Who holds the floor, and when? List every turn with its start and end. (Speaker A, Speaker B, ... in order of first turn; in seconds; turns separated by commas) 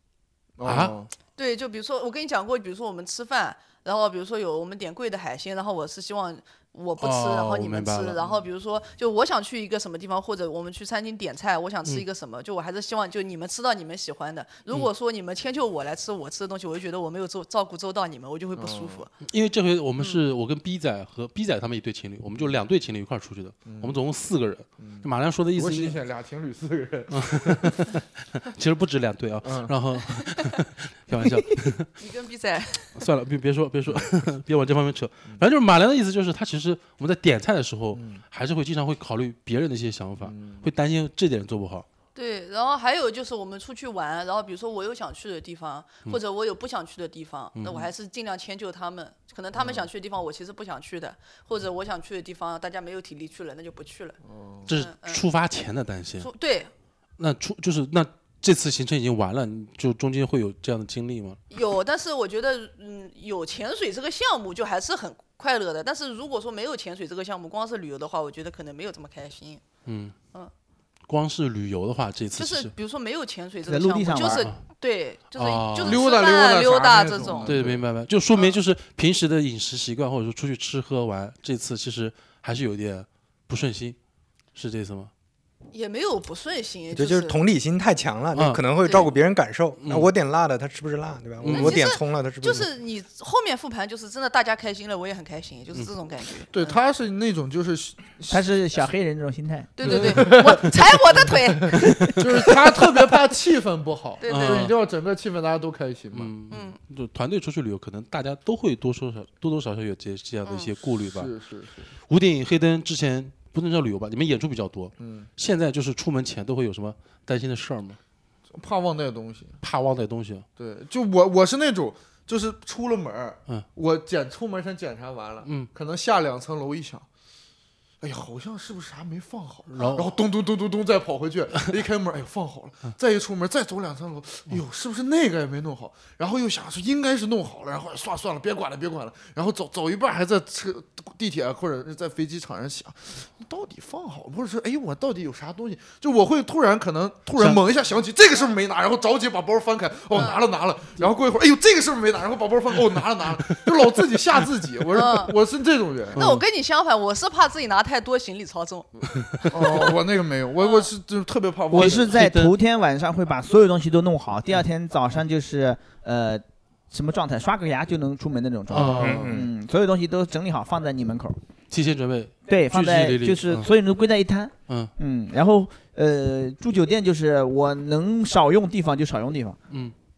Speaker A: 0.6-1.1, Speaker B: 0.6-1.0, Speaker C: 1.4-19.1, Speaker B: 7.0-8.2, Speaker A: 8.2-8.5, Speaker A: 18.6-19.1, Speaker B: 19.2-26.0, Speaker C: 20.0-20.2, Speaker A: 23.6-24.0, Speaker A: 24.8-27.7, Speaker B: 27.1-31.9, Speaker A: 29.4-29.7, Speaker C: 32.0-33.0, Speaker B: 33.0-41.9, Speaker A: 37.9-38.2, Speaker A: 40.2-40.6, Speaker C: 42.1-55.2, Speaker B: 47.6-47.9, Speaker A: 49.5-49.9, Speaker A: 54.2-54.7, Speaker B: 54.7-56.3, Speaker C: 56.2-56.7, Speaker B: 57.2-61.4, Speaker C: 61.5-69.6, Speaker B: 69.9-70.1, Speaker B: 71.1-72.7, Speaker C: 72.4-77.6, Speaker D: 73.7-74.5, Speaker B: 74.2-74.6, Speaker B: 75.3-76.0, Speaker A: 75.8-77.8, Speaker B: 77.5-84.0, Speaker B: 84.5-85.1, Speaker C: 85.7-87.4, Speaker E: 86.9-92.7, Speaker B: 88.3-89.1, Speaker B: 89.8-90.1, Speaker B: 91.4-91.9, Speaker C: 91.5-96.8, Speaker A: 96.5-98.5, Speaker D: 98.3-99.8, Speaker C: 99.8-102.2, Speaker A: 99.8-100.9, Speaker B: 99.9-100.3, Speaker B: 101.7-102.2, Speaker A: 102.2-106.7, Speaker C: 104.2-104.7, Speaker B: 104.3-104.8, Speaker B: 106.1-111.3, Speaker C: 106.5-106.8, Speaker C: 110.5-110.7, Speaker A: 111.1-111.9, Speaker B: 112.1-118.0, Speaker A: 115.0-115.3, Speaker A: 118.5-119.6, Speaker B: 119.6-120.5, Speaker A: 120.6-127.0, Speaker B: 125.5-125.7, Speaker A: 128.0-156.2, Speaker B: 129.7-130.2, Speaker C: 150.1-150.4, Speaker C: 154.9-155.3, Speaker B: 156.1-156.4, Speaker C: 156.1-159.8, Speaker A: 159.5-162.2, Speaker C: 160.6-160.9, Speaker D: 161.7-171.4, Speaker B: 161.7-162.5, Speaker B: 168.7-169.3, Speaker A: 168.7-169.4, Speaker E: 169.0-169.5, Speaker B: 171.7-173.7, Speaker D: 172.5-179.6